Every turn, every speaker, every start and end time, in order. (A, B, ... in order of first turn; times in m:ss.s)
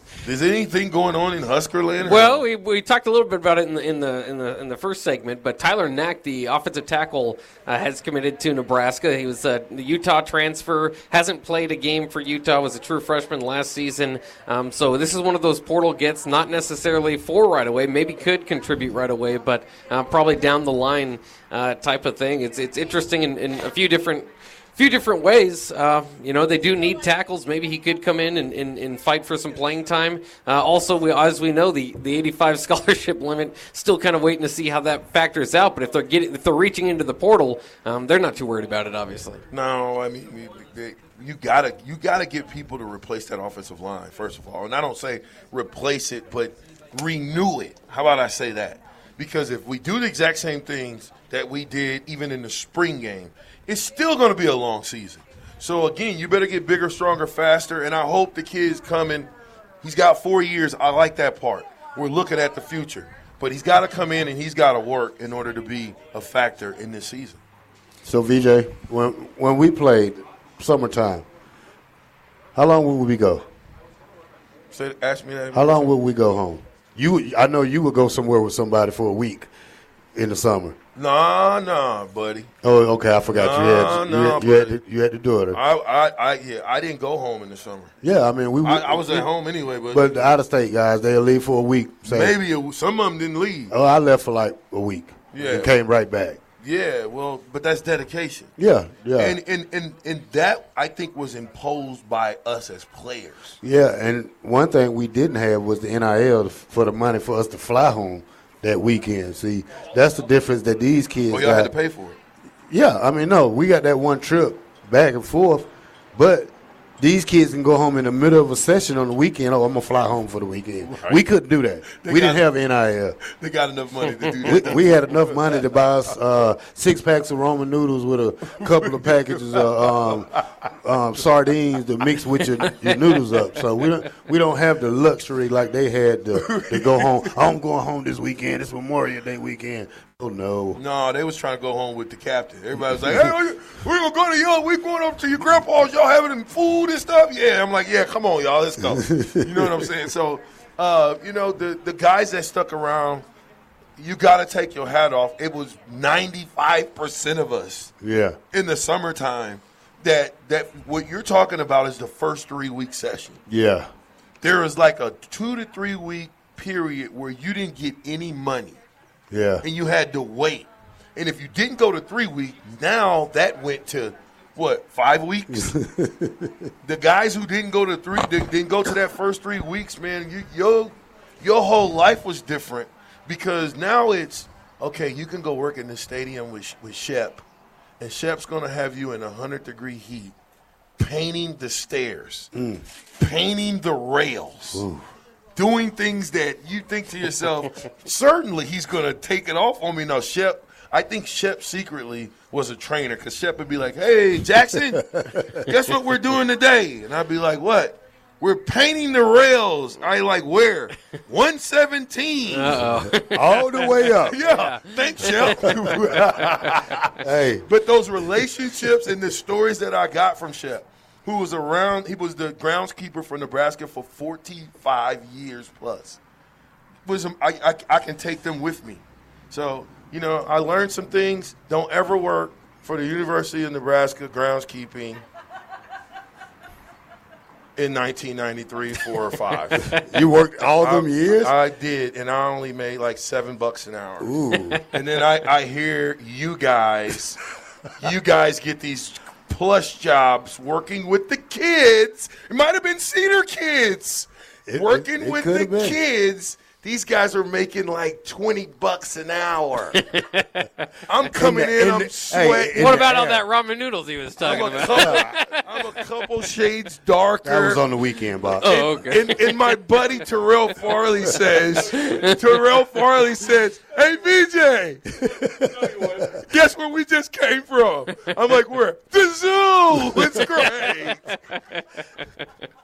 0:00.2-0:02.4 A
0:02.0-0:39.4 B
0:39.5-0:59.3 A
0:59.8-1:07.4 A
1:08.0-1:11.2 C
1:12.5-1:13.4 C
1:14.7-1:15.9 A
1:15.5-1:19.5 C
1:20.1-1:20.8 C
1:20.9-1:22.5 A
1:22.6-1:25.6 C
1:23.3-1:24.8 A
1:25.5-1:27.9 A
1:28.0-1:29.3 C
1:28.6-1:30.3 A
1:29.9-1:32.4 C
1:32.0-1:33.7 A
1:33.7-1:36.4 C
1:35.3-1:35.7 A
1:36.6-1:38.5 A
1:38.6-1:39.4 C
1:39.2-1:43.6 A
1:43.6-1:51.7 C
1:51.3-1:52.2 A
1:52.7-2:03.2 C
2:00.8-2:01.2 A
2:01.8-2:02.5 A
2:03.2-2:05.6 A
2:04.4-2:20.8 C
2:08.6-2:10.2 A
2:16.4-2:17.4 A
2:20.8-2:33.2 A
2:23.0-2:23.3 C
2:28.8-2:29.7 C
2:34.0-2:37.9 A
2:38.0-2:38.4 C
2:38.5-2:43.4 A
2:43.5-2:43.9 C
2:44.4-2:48.8 A
2:49.3-2:49.6 C
2:49.6-2:55.8 A
2:55.5-2:56.7 C
2:56.8-3:07.4 A
3:08.0-3:10.3 A
3:11.0-3:12.5 A
3:12.5-3:12.8 C
3:13.2-3:14.8 A
3:14.7-3:15.0 C
3:15.6-3:32.9 A
3:24.9-3:25.5 C
3:32.5-3:36.8 B
3:32.9-3:34.4 C
3:34.2-3:37.1 A
3:35.2-3:36.6 C
3:37.2-3:37.6 C
3:37.6-3:46.2 A
3:47.0-3:55.2 A
3:57.8-4:00.0 A
3:59.8-4:01.5 C
4:00.8-4:04.3 A
4:04.2-4:04.8 C
4:04.9-4:07.4 A
4:08.0-4:20.0 A
4:14.7-4:16.0 C
4:19.9-4:20.7 B
4:21.1-4:23.0 A
4:21.3-4:23.4 C
4:22.7-4:25.6 B
4:24.4-4:27.8 A
4:24.8-4:25.3 C
4:27.4-4:29.2 C
4:28.6-4:29.6 B
4:28.6-4:35.2 A
4:31.9-4:32.3 B
4:35.2-4:36.3 C
4:35.9-4:41.2 A
4:41.1-4:41.8 B